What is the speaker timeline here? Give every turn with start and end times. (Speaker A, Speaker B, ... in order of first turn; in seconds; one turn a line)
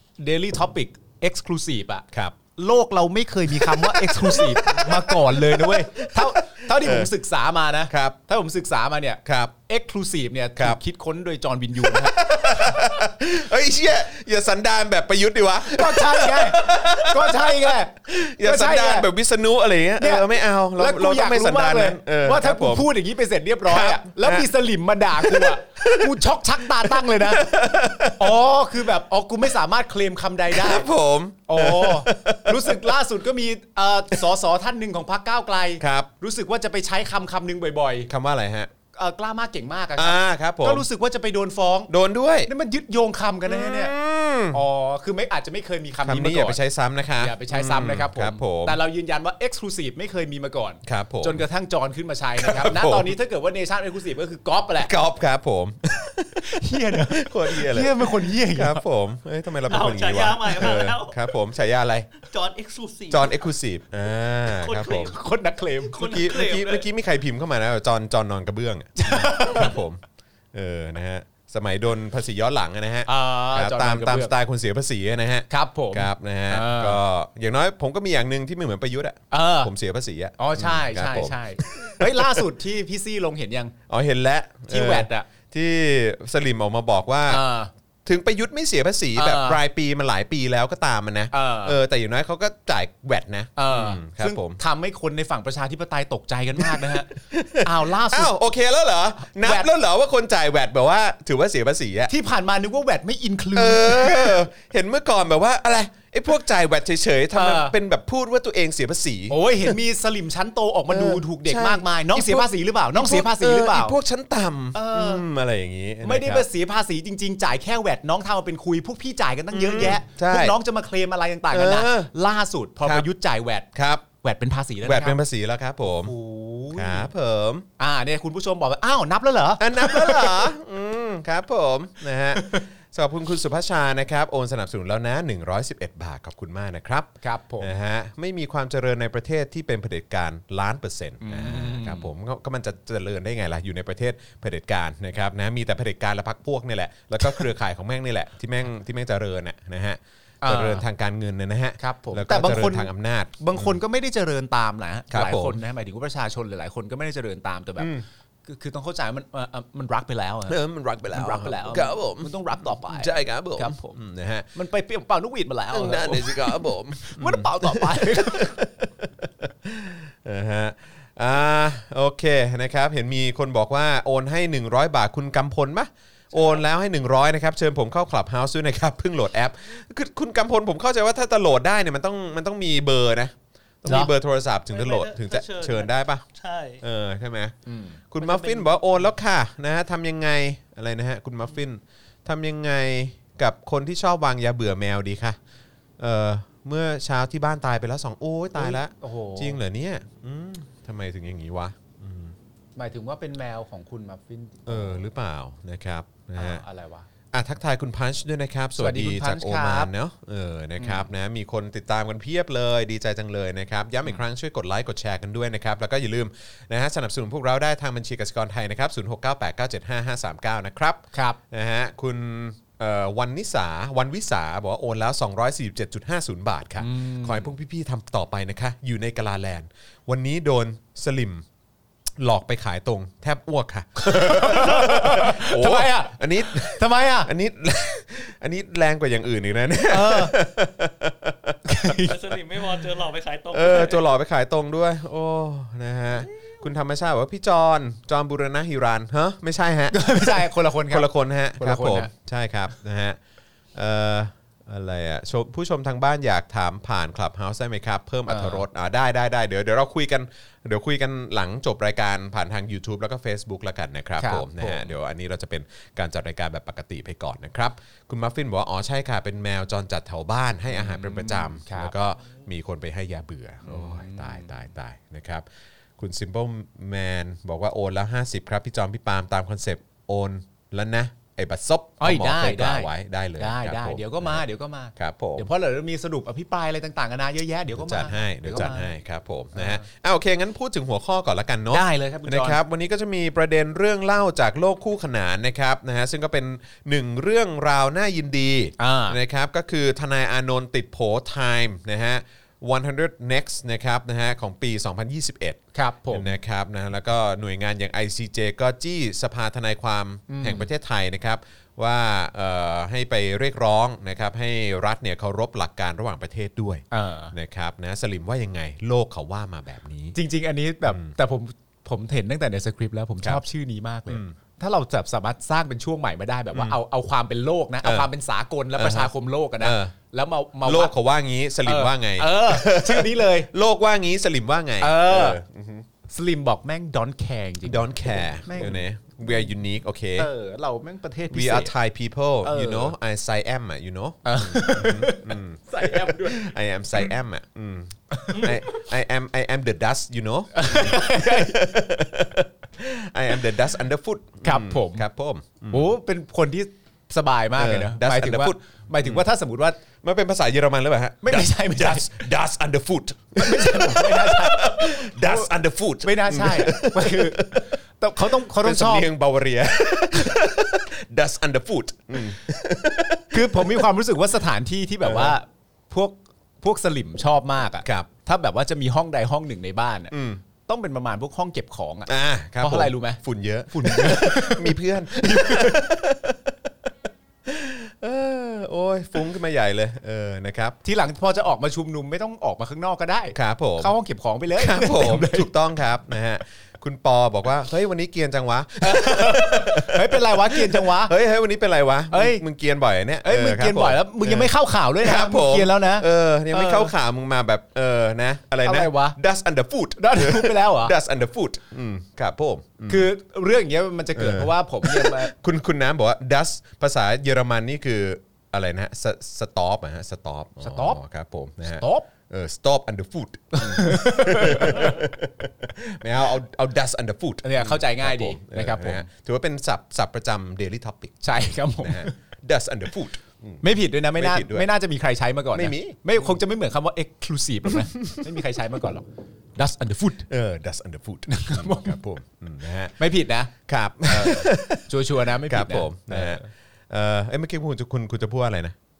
Speaker A: 0.2-12.8
Speaker B: 2.1-2.4
Speaker B: 3.5-7.1
Speaker B: 7.9-8.2
Speaker B: 9.2-9.5
Speaker B: 11.8-22.9
Speaker A: 15.6-19.1
Speaker A: 20.0-27.6
Speaker B: 23.6-24.5
Speaker B: 25.1-28.4
Speaker A: 28.1-30.9
Speaker B: 30.5-33.0
Speaker A: 31.5-38.1
Speaker B: 35.8-36.1
Speaker B: 38.1-38.7
Speaker A: 38.9-41.9
Speaker B: 40.0-40.9
Speaker B: 41.9-42.5
Speaker A: 42.5-43.9
Speaker B: 43.5-44.6
Speaker A: 44.5-46.6
Speaker B: 46.0-48.8
Speaker A: 47.2-54.9
Speaker B: 50.8-51.4
Speaker B: 52.4-53.1
Speaker B: 54.8-62.1
Speaker A: 56.4-58.8
Speaker C: 59.7-61.2
Speaker C: 62.2-63.5
Speaker B: 63.1-65.1
Speaker C: 64.4-65.2
Speaker A: 65.0-66.1
Speaker C: 65.8-66.8
Speaker B: 66.0-70.0
Speaker A: 69.0-69.8
Speaker B: 70.5-82.4
Speaker A: 73.0-74.3
Speaker A: 75.5-77.0
Speaker A: 79.3-79.7
Speaker A: 80.4-83.7
Speaker B: 83.9-87.4
Speaker A: 84.7-85.2
Speaker A: 87.3-87.7
Speaker B: 88.0-94.6
Speaker A: 89.1-89.6
Speaker A: 91.3-91.8
Speaker A: 93.5-98.3
Speaker B: 96.6-102.1
Speaker A: 99.4-99.7
Speaker A: 102.1-104.4
Speaker B: 103.5-109.8
Speaker A: 107.3-107.7
Speaker A: 109.3-114.0
Speaker B: 110.9-116.5
Speaker A: 114.7-115.2
Speaker A: 116.0-125.2
Speaker B: 119.5-120.6
Speaker B: 121.5-122.1
Speaker B: 123.7-124.0
Speaker B: 124.8-126.1
Speaker A: 126.0-127.1
Speaker B: 126.7-127.7
Speaker A: 127.8-130.5
Speaker B: 129.6-153.8
Speaker A: 132.4-132.6
Speaker A: 137.2-137.7
Speaker A: 141.2-142.1
Speaker A: 150.4-150.8
Speaker A: 151.8-164.0
Speaker B: 155.1-155.6
Speaker B: 157.8-158.0
Speaker B: 160.5-162.3
Speaker B: 162.8-164.5
Speaker A: 164.5-168.6
Speaker B: 165.7-186.2
Speaker C: 176.3-176.6
Speaker A: 183.9-184.1
Speaker C: 184.7-186.8
Speaker B: 186.8-187.5
Speaker A: 187.7-188.0
Speaker B: 188.1-195.4
Speaker C: 188.2-188.8
Speaker B: 196.0-202.3
Speaker A: 198.6-199.6
Speaker A: 202.8-205.1
Speaker B: 204.7-206.6
Speaker A: 206.4-207.1
Speaker B: 207.3-231.4
Speaker A: 208.8-209.9
Speaker A: 210.8-211.1
Speaker A: 221.1-221.4
Speaker A: 226.8-227.5
Speaker B: 232.2-242.3
Speaker A: 234.0-237.3
Speaker A: 239.9-240.3
Speaker A: 241.7-242.2
Speaker C: 242.0-244.0
Speaker B: 243.5-253.2
Speaker A: 249.9-252.1
Speaker B: 253.7-275.4
Speaker A: 258.3-258.6
Speaker A: 264.2-264.9
Speaker A: 270.7-271.9
Speaker A: 273.6-274.5
Speaker B: 276.0-284.4
Speaker A: 282.0-288.9
Speaker B: 284.9-285.5
Speaker B: 287.7-320.1
Speaker A: 289.5-289.8
Speaker A: 291.7-292.6
Speaker A: 298.8-299.2
Speaker A: 305.7-306.3
Speaker A: 310.3-310.7
Speaker A: 316.9-317.3
Speaker A: 320.1-330.9
Speaker B: 324.1-324.3
Speaker B: 327.8-328.1
Speaker B: 328.7-329.9
Speaker B: 330.6-335.9
Speaker A: 331.6-333.5
Speaker A: 334.8-335.4
Speaker A: 336.1-338.8
Speaker B: 337.6-340.3
Speaker A: 340.2-341.7
Speaker B: 341.3-355.9
Speaker A: 342.4-342.9
Speaker A: 344.2-346.5
Speaker A: 348.1-348.5
Speaker C: 348.3-348.6
Speaker A: 350.5-351.6
Speaker A: 354.4-355.0
Speaker A: 355.7-359.8
Speaker B: 357.6-359.3
Speaker B: 360.0-373.9
Speaker A: 361.2-362.1
Speaker A: 363.4-365.5
Speaker A: 366.0-369.1
Speaker A: 373.3-380.1
Speaker B: 375.0-375.4
Speaker B: 377.8-378.1
Speaker B: 380.1-380.4
Speaker A: 380.7-385.8
Speaker B: 382.1-386.9
Speaker B: 387.4-390.8
Speaker A: 390.8-395.5
Speaker B: 393.3-393.9
Speaker B: 394.5-413.1
Speaker A: 398.8-401.1
Speaker A: 402.1-402.4
Speaker A: 403.2-406.9
Speaker A: 408.6-409.2
Speaker A: 410.0-410.9
Speaker A: 412.9-415.3
Speaker B: 414.1-433.6
Speaker A: 420.6-421.0
Speaker A: 421.6-422.1
Speaker A: 423.5-425.1
Speaker A: 427.4-429.1
Speaker A: 431.2-432.1
Speaker A: 433.6-439.0
Speaker B: 434.1-434.7
Speaker B: 435.5-436.0
Speaker B: 437.7-438.4
Speaker A: 439.6-440.3
Speaker B: 440.3-442.9
Speaker A: 441.3-442.0
Speaker A: 443.0-443.5
Speaker B: 443.6-448.7
Speaker A: 444.0-446.5